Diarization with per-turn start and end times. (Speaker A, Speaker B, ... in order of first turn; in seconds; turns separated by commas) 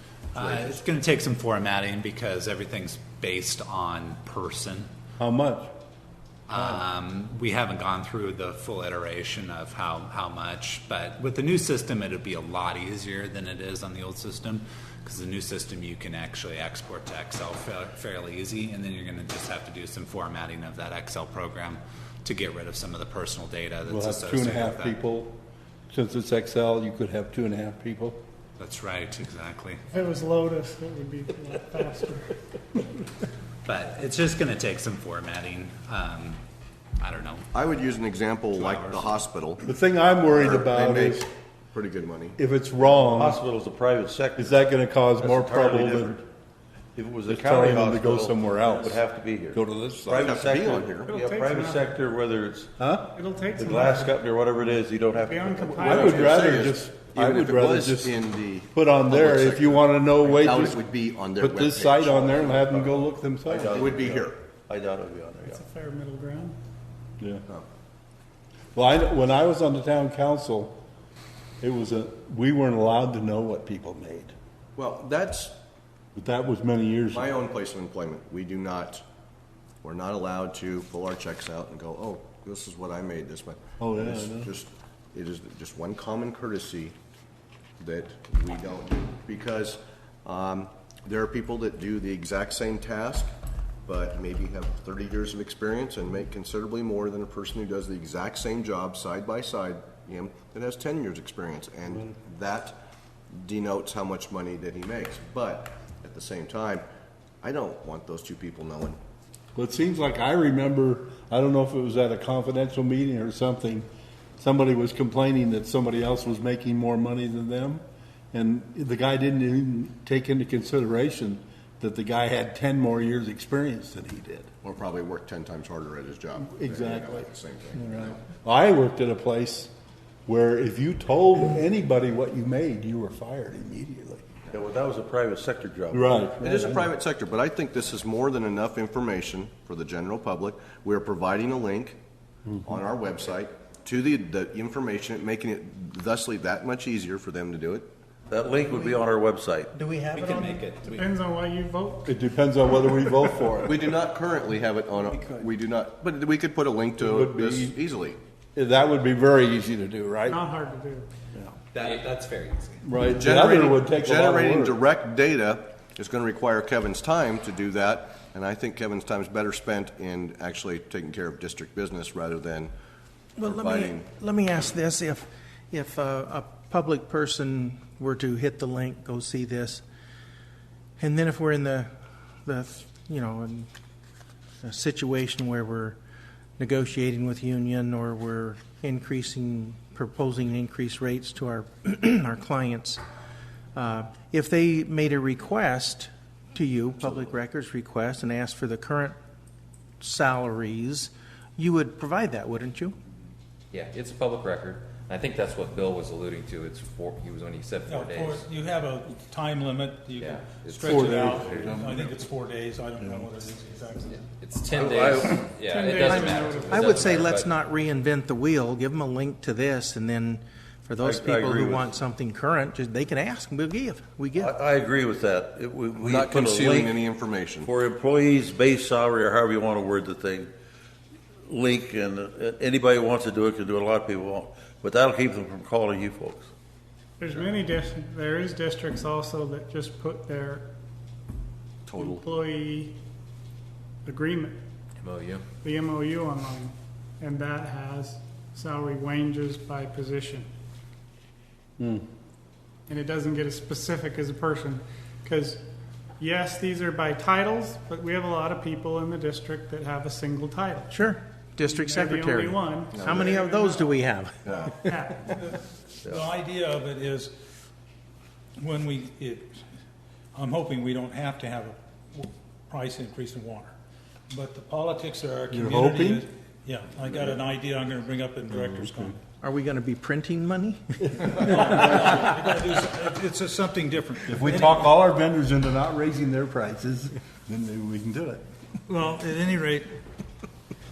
Speaker A: 0.3-0.8, Speaker B: 0.3-4.9, Speaker C: 5.2-5.7, Speaker B: 6.5-25.0, Speaker C: 6.5-6.8, Speaker C: 23.8-25.4, Speaker C: 25.9-28.2, Speaker B: 28.6-29.8, Speaker D: 29.9-32.3, Speaker B: 33.6-36.4, Speaker B: 37.0-37.4, Speaker A: 37.5-39.6, Speaker B: 38.5-39.1, Speaker C: 39.6-41.3, Speaker A: 40.3-42.4, Speaker C: 42.4-43.4, Speaker E: 42.8-44.6, Speaker C: 44.4-46.2, Speaker E: 45.2-46.2, Speaker E: 46.9-52.7, Speaker C: 47.3-49.0, Speaker C: 49.5-50.4, Speaker A: 50.1-51.1, Speaker D: 51.0-51.9, Speaker C: 52.8-53.1, Speaker D: 53.1-54.2, Speaker E: 53.5-56.1, Speaker D: 55.1-56.5, Speaker C: 55.7-60.8, Speaker A: 55.9-63.0, Speaker C: 61.4-64.1, Speaker E: 63.4-65.6, Speaker A: 63.7-64.4, Speaker D: 65.4-66.5, Speaker C: 67.2-67.4, Speaker C: 68.7-70.8, Speaker C: 71.6-74.3, Speaker A: 74.8-75.5, Speaker C: 76.1-77.3, Speaker A: 77.1-79.0, Speaker A: 79.8-86.9, Speaker C: 83.8-84.5, Speaker A: 87.8-93.3, Speaker A: 93.8-102.8, Speaker A: 103.3-106.8, Speaker A: 107.4-109.0, Speaker C: 109.5-113.8, Speaker C: 114.4-117.8, Speaker C: 118.3-124.5, Speaker A: 124.6-128.2, Speaker C: 126.4-129.7, Speaker C: 130.3-134.2, Speaker E: 134.5-136.3, Speaker C: 135.9-136.9, Speaker A: 136.4-142.0, Speaker C: 142.5-142.8, Speaker A: 142.6-147.9, Speaker E: 148.3-149.7, Speaker F: 149.7-150.7, Speaker B: 150.1-151.1, Speaker D: 150.2-152.2, Speaker C: 152.1-153.8, Speaker A: 153.6-158.2, Speaker F: 155.1-155.4, Speaker C: 157.0-157.8, Speaker C: 158.6-160.4, Speaker D: 160.2-161.1, Speaker B: 161.7-162.7, Speaker C: 162.8-164.8, Speaker A: 163.1-172.7, Speaker F: 173.4-179.8, Speaker A: 173.4-174.1, Speaker F: 181.0-181.9, Speaker F: 182.4-183.7, Speaker F: 184.6-186.0, Speaker F: 186.6-193.0, Speaker F: 193.7-199.2, Speaker F: 200.0-202.9, Speaker G: 203.7-208.4, Speaker H: 207.8-214.2, Speaker G: 210.2-211.8, Speaker C: 210.8-212.2, Speaker C: 213.0-213.3, Speaker G: 214.1-217.5, Speaker E: 214.7-215.5, Speaker D: 215.7-217.3, Speaker F: 216.1-224.6, Speaker E: 221.0-221.9, Speaker E: 224.3-227.0, Speaker A: 225.9-227.7, Speaker E: 227.6-230.5, Speaker E: 231.5-236.5, Speaker D: 237.2-240.7, Speaker D: 241.9-242.9, Speaker D: 244.0-244.6, Speaker G: 245.0-245.4, Speaker D: 245.6-250.5, Speaker C: 251.8-252.0, Speaker D: 252.9-255.6, Speaker D: 256.2-260.9, Speaker F: 260.9-265.1, Speaker D: 261.7-264.0, Speaker A: 262.9-263.4, Speaker A: 264.4-264.7, Speaker D: 264.9-265.3, Speaker H: 265.3-267.3, Speaker H: 268.6-269.5, Speaker H: 270.3-273.7, Speaker H: 274.3-279.2, Speaker C: 275.5-276.2, Speaker C: 278.5-279.1, Speaker F: 279.4-281.4, Speaker H: 281.3-284.8, Speaker C: 284.2-288.4, Speaker H: 288.9-289.9